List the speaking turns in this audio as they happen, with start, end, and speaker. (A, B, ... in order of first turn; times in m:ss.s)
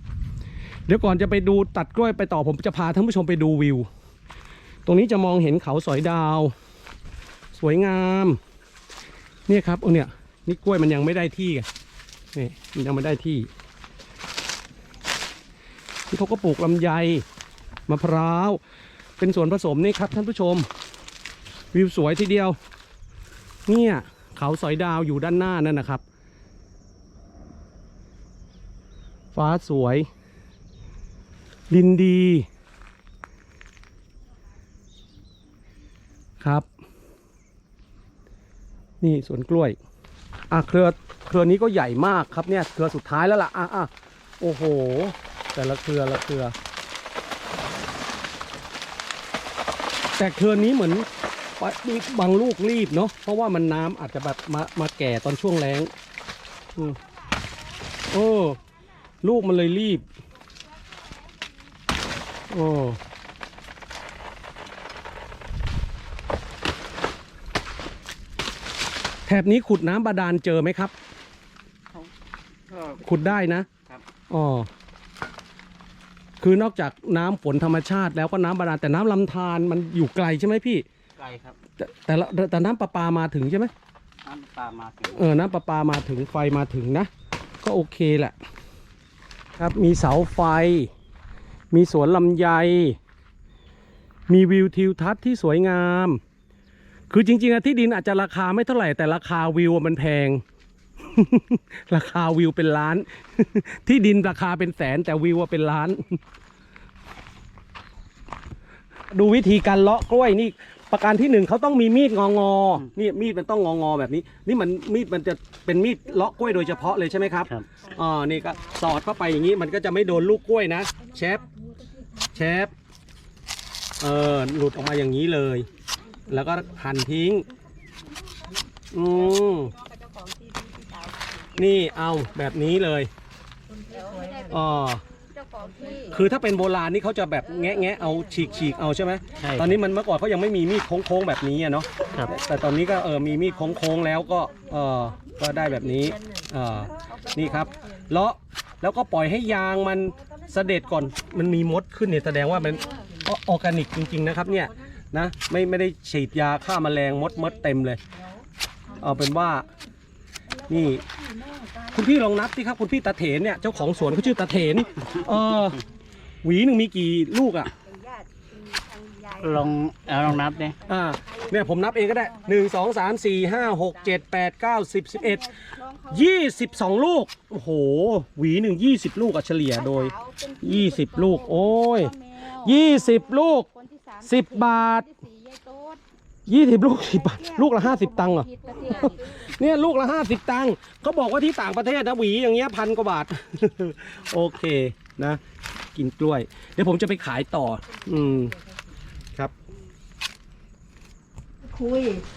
0:00.9-0:03.9 A
0:04.8-0:06.5 A
0:07.5-0:08.4 A
0:09.5-0:11.7 A
0:12.3-0:13.5 A
0:16.1-0:17.2 A
0:17.9-0:18.6 A
0:19.2-0:20.7 A
0:21.7-0:22.6 A
0:23.7-0:26.0 A
0:29.3-0:30.1 A
0:31.7-0:32.4 A
0:36.4-0:36.7 A
0:39.0-0:39.8 A
0:40.5-0:46.5 A
0:50.2-0:51.0 A
0:51.6-0:55.9 A
0:56.8-0:58.6 B
0:58.1-0:58.6 A
0:59.2-1:00.0 A
0:59.8-1:01.9 B
1:02.5-1:03.0 A
1:09.2-1:10.9 A
1:12.7-1:14.0 C
1:13.0-1:13.7 A
1:14.3-1:14.7 A
1:16.4-1:20.8 A
1:21.2-1:21.6 C
1:21.8-1:23.7 A
1:24.2-1:25.3 C
1:25.1-1:27.1 A
1:27.6-1:28.3 A
1:29.6-1:30.9 A
1:31.7-1:33.0 A
1:34.3-1:36.2 A
1:37.1-1:40.4 A
1:41.0-1:46.2 A
1:49.1-2:01.4 A
1:56.4-1:57.1 B
2:01.5-2:02.0 B
2:02.3-2:02.7 A
2:04.0-2:05.7 A
2:06.3-2:07.5 A
2:08.1-2:08.6 B
2:08.9-2:09.7 A
2:09.1-2:12.8 B
2:11.5-2:13.1 A
2:13.9-2:16.3 B
2:14.5-2:15.0 A
2:16.1-2:38.0 A
2:17.4-2:19.4 B
2:19.4-2:19.7 C
2:22.3-2:25.0 B
2:25.7-2:26.1 B
2:27.0-2:27.8 B
2:30.3-2:31.5 B
2:32.4-2:33.1 B
2:38.9-2:39.5 B
2:39.0-2:39.6 A
2:40.5-2:42.1 B
2:40.7-2:41.0 A
2:41.9-2:45.8 A
2:43.6-2:45.8 B
2:46.4-2:47.7 A
2:47.8-2:52.8 B
2:49.4-2:50.8 C
2:50.9-2:55.5 A
2:53.5-2:54.2 B
2:55.1-2:56.6 B
2:56.1-3:03.7 A
2:59.7-3:06.0 B
3:04.2-3:05.0 A
3:06.5-3:15.4 A
3:06.8-3:09.5 B
3:15.9-3:18.5 A
3:21.6-3:22.2 B